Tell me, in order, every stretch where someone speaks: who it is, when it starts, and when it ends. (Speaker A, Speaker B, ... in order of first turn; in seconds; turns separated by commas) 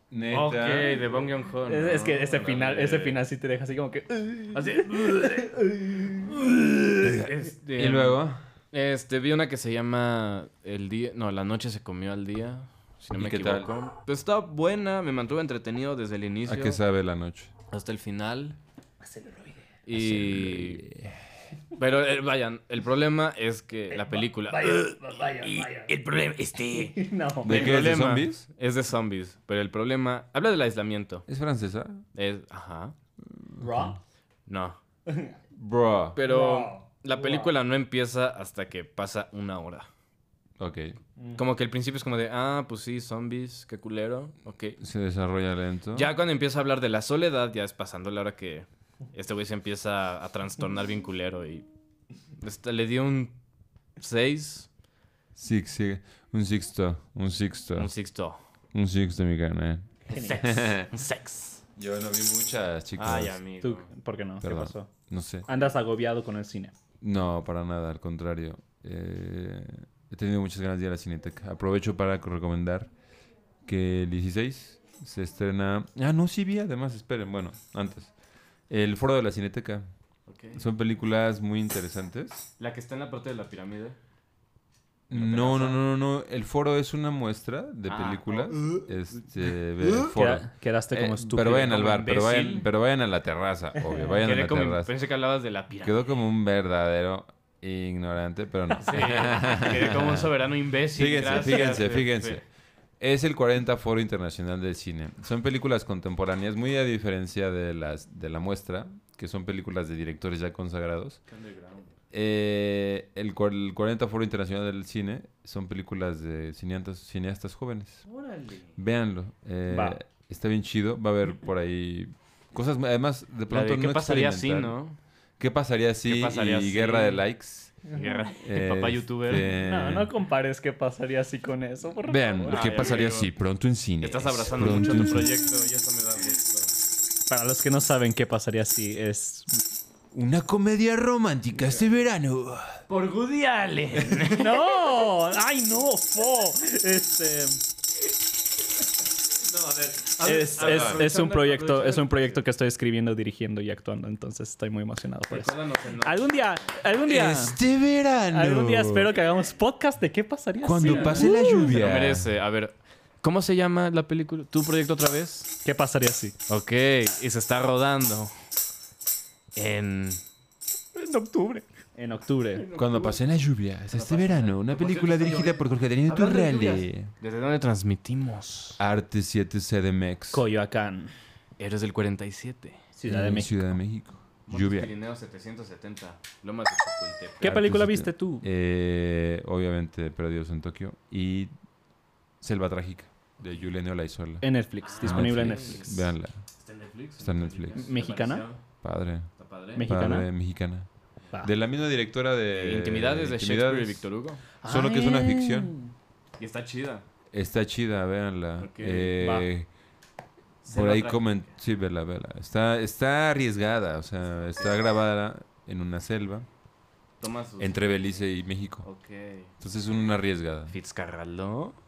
Speaker A: 0.1-1.1, Speaker B: 0.3-3.2, Speaker C: 1.7-7.3, Speaker B: 4.5-5.5, Speaker B: 7.0-16.8, Speaker A: 7.8-8.4, Speaker A: 13.1-13.7, Speaker A: 16.5-17.5, Speaker B: 17.7-18.6, Speaker C: 19.0-19.6, Speaker B: 19.9-20.9, Speaker A: 19.9-21.1, Speaker B: 21.8-31.3, Speaker C: 24.0-25.9, Speaker C: 26.7-27.7, Speaker A: 27.4-28.4, Speaker A: 31.3-32.0, Speaker B: 32.1-33.0, Speaker A: 33.3-34.0, Speaker C: 33.6-34.0, Speaker B: 34.5-34.8, Speaker C: 35.1-35.4, Speaker A: 35.5-36.2, Speaker B: 36.1-39.9, Speaker C: 36.3-37.5, Speaker A: 40.6-41.0, Speaker B: 41.4-44.8, Speaker A: 44.8-46.1, Speaker B: 45.9-51.7, Speaker B: 52.4-53.4, Speaker B: 54.0-54.7, Speaker A: 55.4-57.9, Speaker B: 57.8-58.4, Speaker A: 58.7-60.9, Speaker C: 60.1-60.5, Speaker B: 60.1-61.6, Speaker A: 61.8-63.4, Speaker B: 63.0-63.9, Speaker C: 63.6-64.9, Speaker A: 64.4-65.5, Speaker C: 65.5-66.7, Speaker A: 67.0-72.9, Speaker A: 73.6-78.1, Speaker A: 78.7-79.9, Speaker B: 80.3-80.6, Speaker A: 80.5-82.5, Speaker B: 82.6-84.0, Speaker B: 85.1-85.8, Speaker A: 85.1-94.9, Speaker B: 87.9-88.8, Speaker C: 90.1-91.8, Speaker B: 91.5-92.7, Speaker B: 94.2-96.1, Speaker A: 95.8-100.3, Speaker B: 98.8-102.4, Speaker A: 100.9-102.4, Speaker A: 103.0-111.2, Speaker B: 111.3-111.9, Speaker A: 112.1-118.0, Speaker B: 118.1-118.8, Speaker A: 118.8-124.8, Speaker C: 119.7-120.0, Speaker B: 123.5-125.0, Speaker A: 125.4-127.8, Speaker B: 126.0-127.3, Speaker B: 127.9-129.5, Speaker A: 128.4-130.1, Speaker C: 129.5-133.0, Speaker A: 132.0-135.4, Speaker B: 132.5-133.3, Speaker B: 134.0-136.7, Speaker C: 137.3-139.6, Speaker A: 140.1-142.8, Speaker B: 142.9-144.7, Speaker C: 144.3-147.6, Speaker B: 149.4-152.4, Speaker C: 150.2-157.6, Speaker A: 150.6-151.1, Speaker B: 155.3-156.4, Speaker A: 157.1-159.1, Speaker C: 158.3-161.7, Speaker A: 160.6-162.3, Speaker B: 160.8-165.5, Speaker C: 165.6-166.3, Speaker B: 166.5-168.3, Speaker B: 169.6-170.2, Speaker C: 170.9-172.7, Speaker B: 172.6-173.2, Speaker A: 172.8-177.1, Speaker B: 173.9-178.8, Speaker A: 178.8-180.4, Speaker C: 180.3-181.1, Speaker B: 181.6-182.8, Speaker C: 182.9-183.7, Speaker A: 183.1-184.9, Speaker B: 184.5-187.4, Speaker C: 187.4-188.4, Speaker A: 187.4-191.5, Speaker A: 192.4-194.5, Speaker C: 194.4-195.9, Speaker B: 194.8-198.6, Speaker A: 195.0-196.4, Speaker A: 197.2-197.8, Speaker C: 197.8-198.4, Speaker A: 198.8-199.3, Speaker B: 199.4-199.9, Speaker C: 199.8-200.3, Speaker A: 199.8-200.9, Speaker A: 201.4-204.1, Speaker B: 202.5-204.4, Speaker C: 204.6-205.9, Speaker A: 204.6-205.7, Speaker B: 206.4-207.0, Speaker A: 207.3-209.7, Speaker B: 208.6-209.4, Speaker B: 210.6-211.4, Speaker A: 210.7-216.5, Speaker B: 217.2-217.8, Speaker A: 217.6-218.9, Speaker B: 218.8-219.5, Speaker A: 219.6-220.8, Speaker B: 220.7-221.8